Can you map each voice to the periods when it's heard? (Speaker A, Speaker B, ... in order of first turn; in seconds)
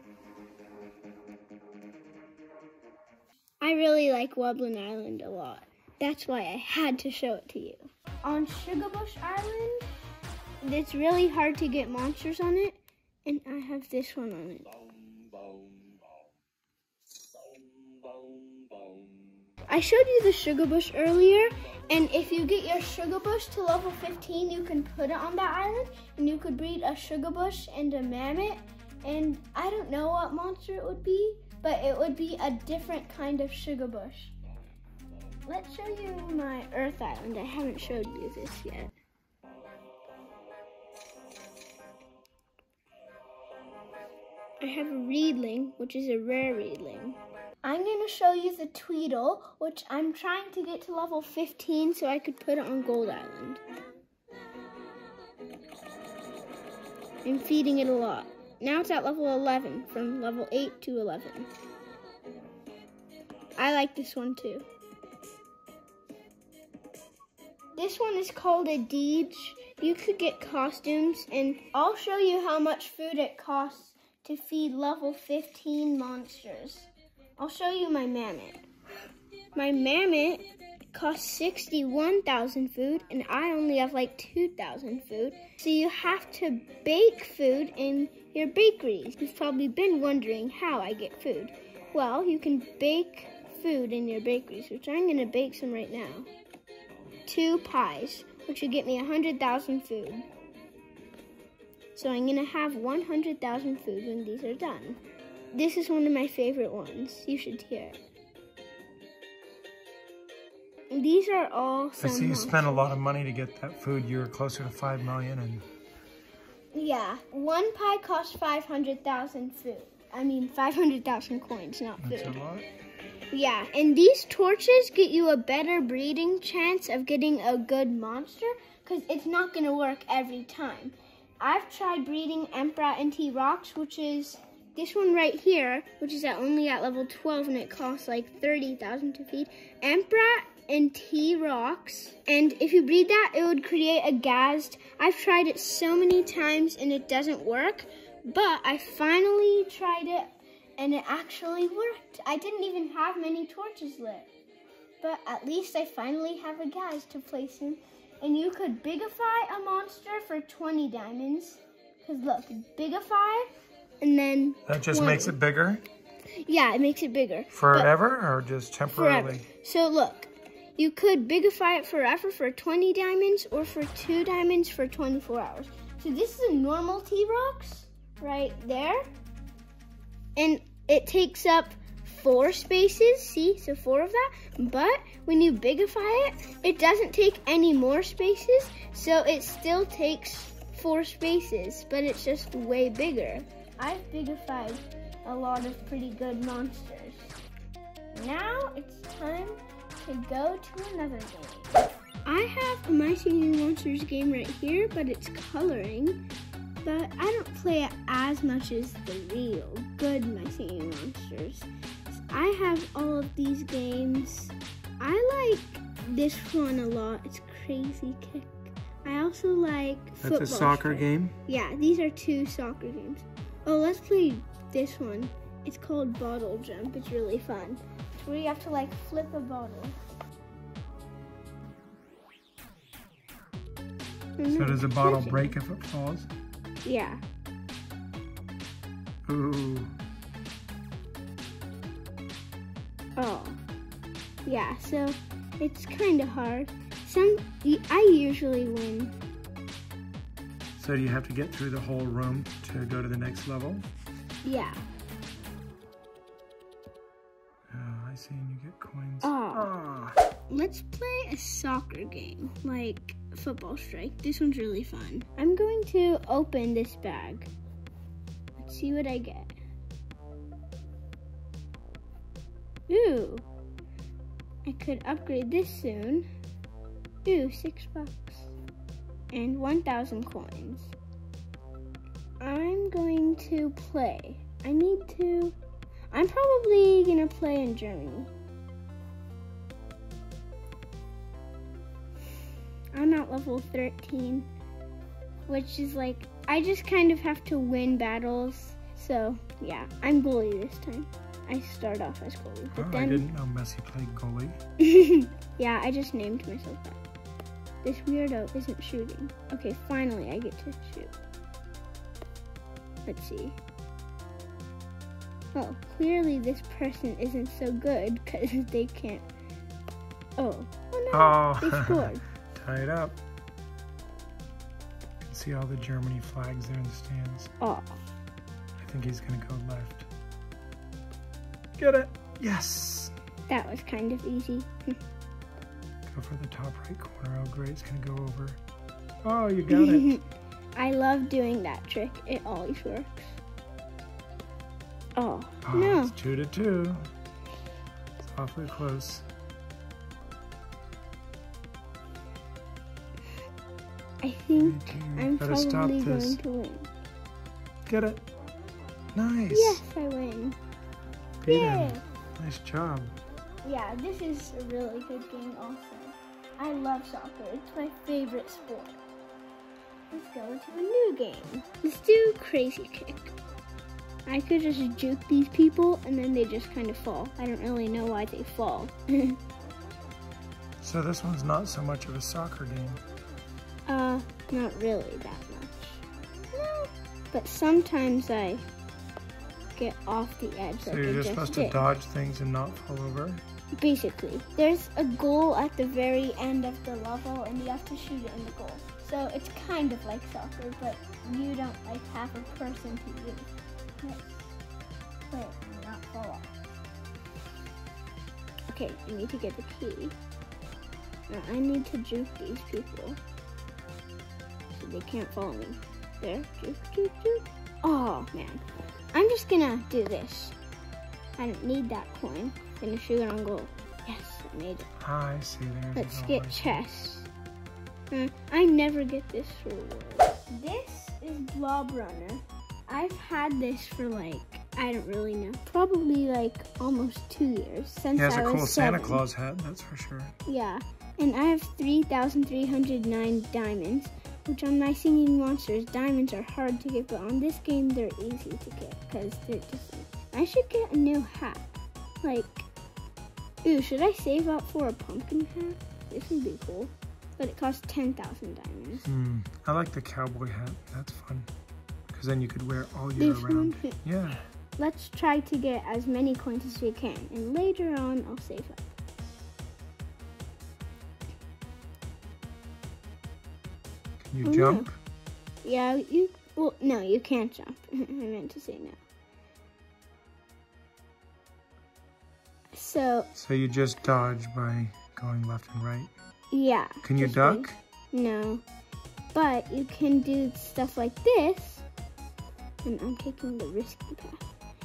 Speaker A: 3.6-9.9, 10.6-14.7, 19.7-34.3, 35.5-38.9, 44.6-53.6, 57.2-61.5, 63.6-64.7, 67.8-78.6, 79.5-96.3, 97.3-100.3, 102.0-105.0, 105.5-108.0, 110.9-113.0, 116.7-122.4, 123.3-154.3, 155.0-163.5, 164.0-165.4, 166.4-167.9, 168.9-179.0, 180.4-197.4, 198.1-206.2, 206.8-230.0, 234.4-235.6, 236.8-237.2, 243.2-243.6, 244.5-249.2, 254.4-254.8, 259.2-259.7, 260.5-267.5, 268.6-269.5, 272.9-273.4, 274.6-276.3, 277.2-278.5, 279.3-280.9, 282.4-285.6, 286.1-288.3, 292.9-294.5, 295.5-303.3, 304.8-307.0, 307.8-311.1, 313.1-313.6, 315.5-319.2, 320.4-322.2, 327.6-328.0, 333.5-334.9, 339.7-343.4, 345.2-346.2, 354.2-356.9, 359.5-360.6, 361.5-362.0, 363.6-369.0, 370.1-373.3, 374.3-379.4, 383.9-388.7, 389.8-391.9, 393.7-403.5, 404.0-404.5, 405.3-406.5, 408.7-410.2, 411.3-413.2, 414.7-418.6, 419.1-420.6, 421.4-424.9, 425.9-427.3, 428.1-439.2, 440.5-452.7, 453.6-459.1, 463.2-464.0, 464.8-468.9, 474.4-474.9, 475.6-479.0, 482.7-483.3, 486.5-488.6, 489.3-491.9, 492.8-494.4
Speaker B: 112.0-115.7, 122.0-122.7, 164.7-165.8, 167.5-169.5, 220.2-221.4, 234.5-236.3, 239.3-239.9, 250.8-253.9, 257.7-260.2, 302.8-304.6, 321.1-323.2, 325.2-327.5, 328.8-330.1, 331.8-333.1, 336.1-338.6, 339.2-340.1, 345.6-347.0, 348.2-349.3, 354.6-356.4, 357.9-358.2, 359.1-359.8, 361.4-363.2, 380.8-383.0, 390.8-393.4, 425.0-426.9, 438.1-440.4, 459.1-461.5, 462.1-464.4, 474.2-475.0, 483.4-486.1, 487.0-487.8